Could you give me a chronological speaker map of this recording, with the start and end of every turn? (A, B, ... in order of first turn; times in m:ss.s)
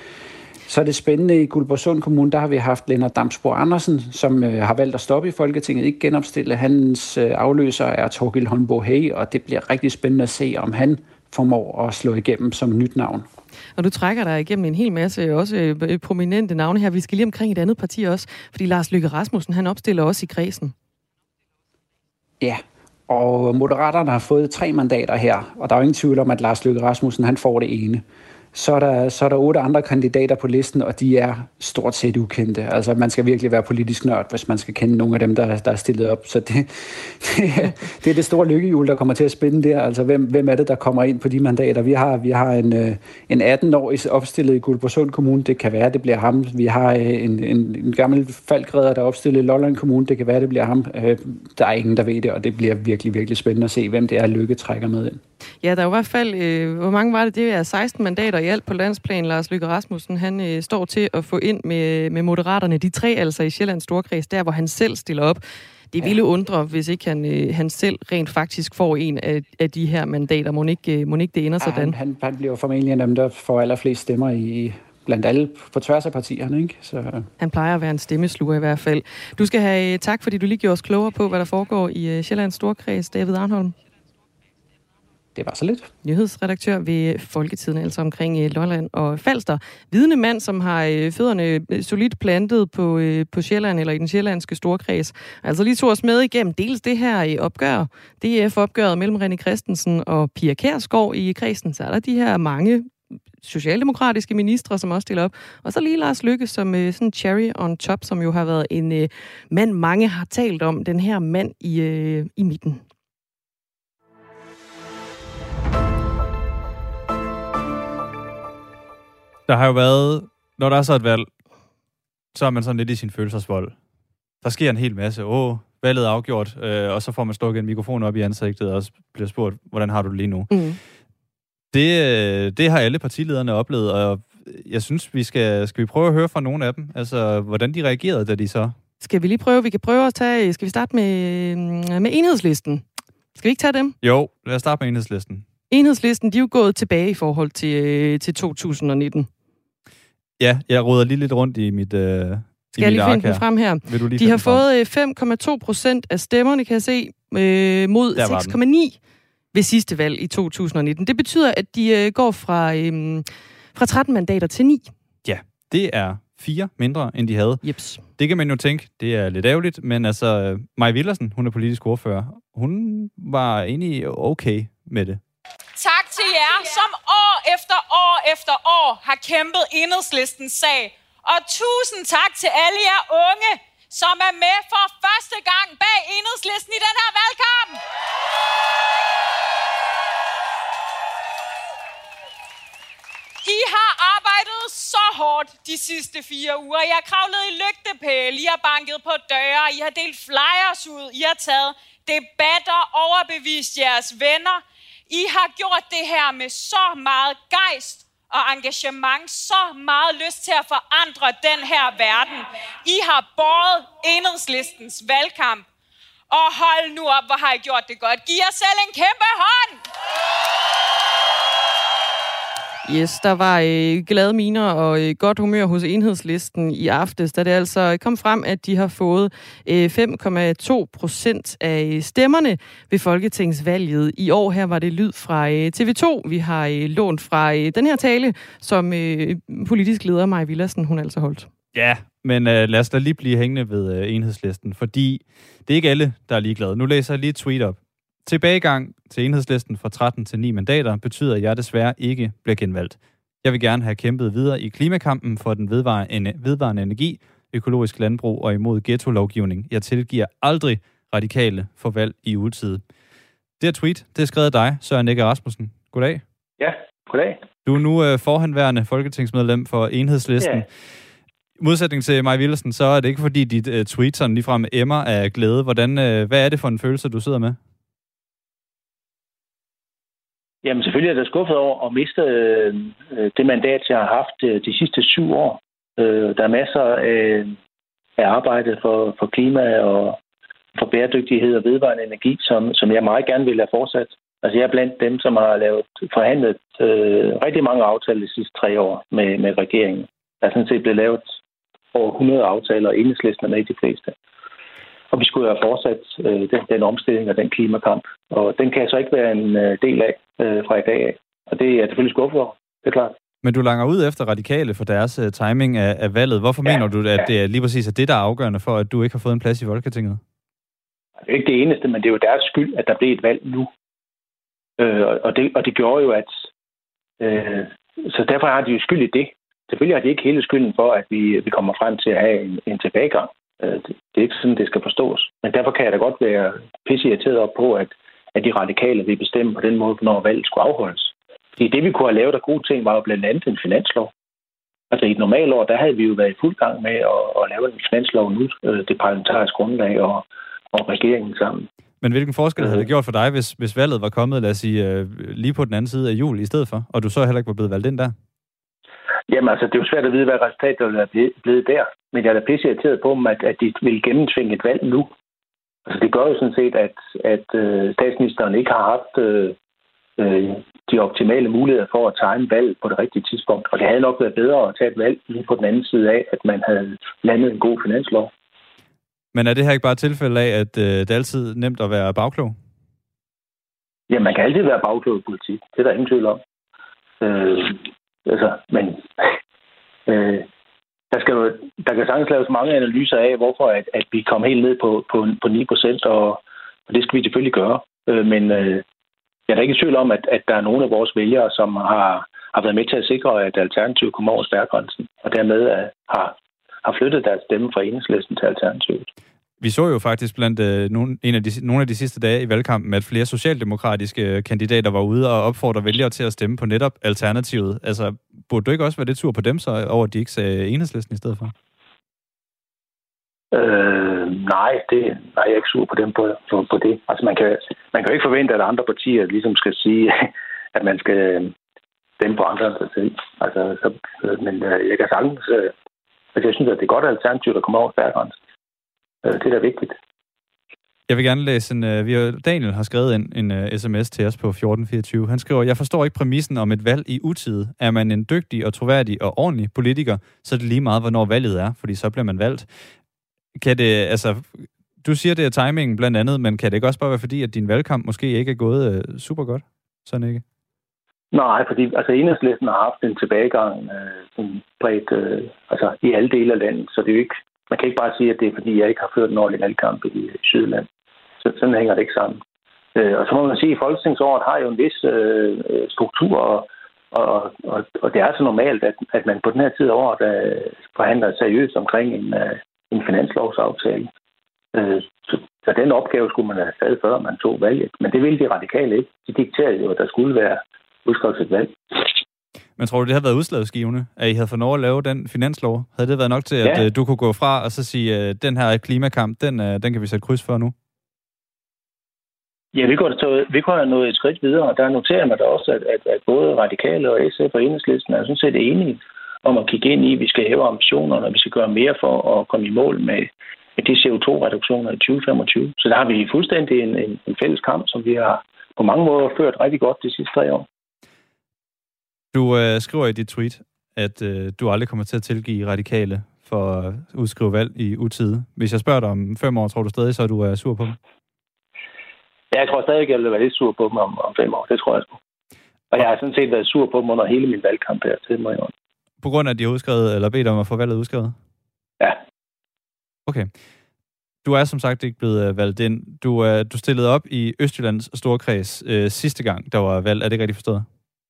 0:00.7-0:13.3 A
0:13.8-0:20.7 B
0:22.4-0:55.2 A
0:55.6-1:05.4 B
1:05.9-1:12.0 B
1:11.6-1:17.3 A
1:17.4-1:23.8 B
1:25.4-1:25.9 A
1:26.0-1:52.8 B
1:59.5-2:01.3 C
2:02.4-2:03.8 C
2:04.4-2:10.6 C
2:10.5-2:10.8 B
2:11.7-2:18.8 C
2:19.0-2:24.0 B
2:24.0-2:25.4 C
2:25.7-2:29.3 B
2:30.4-2:34.6 C
2:32.8-2:39.0 B
2:38.2-2:38.6 C
2:39.5-2:44.9 B
2:45.2-2:55.2 C
2:47.6-2:48.0 B
2:55.8-3:07.8 D
3:13.4-3:35.7 D
3:36.3-3:39.8 D
3:42.8-4:01.5 B
4:01.7-4:22.8 C
4:23.6-4:26.2 C
4:26.6-4:27.4 E
4:27.6-4:30.6 C
4:30.4-4:30.6 E
4:31.6-4:37.6 C
4:40.6-4:47.6 E
4:48.2-4:50.2 E
4:50.8-5:01.3 E
5:01.9-5:04.2 E
5:05.1-5:13.1 E
5:13.4-5:20.2 C
5:16.6-5:17.3 E
5:21.2-5:23.7 E
5:24.8-5:26.5 E
5:27.2-5:44.1 E
5:44.9-5:51.7 E
5:52.0-5:58.1 C
5:52.6-5:52.9 E
5:59.3-6:05.1 E
6:05.9-6:09.6 E
6:10.2-6:18.3 E
6:19.3-6:22.6 C
6:24.1-6:26.4 E
6:27.2-6:29.3 E
6:30.1-6:30.5 E
6:31.1-6:38.8 E
6:39.5-6:49.1 E
6:49.6-7:01.5 C
7:03.5-7:11.5 E
7:12.2-7:15.7 E
7:16.4-7:18.4 E
7:19.2-7:20.0 E
7:21.1-7:32.7 C
7:33.6-7:40.4 C
7:41.3-7:50.9 E
7:51.4-7:52.4 E
7:53.0-8:04.1 E
8:04.7-8:12.1 E
8:12.8-8:20.7 C
8:16.6-8:16.9 E
8:22.7-8:40.7 E
8:42.3-8:51.0 C
8:52.5-8:55.2 E
8:55.9-8:58.7 E
8:59.2-9:01.4 C
9:04.4-9:10.9 C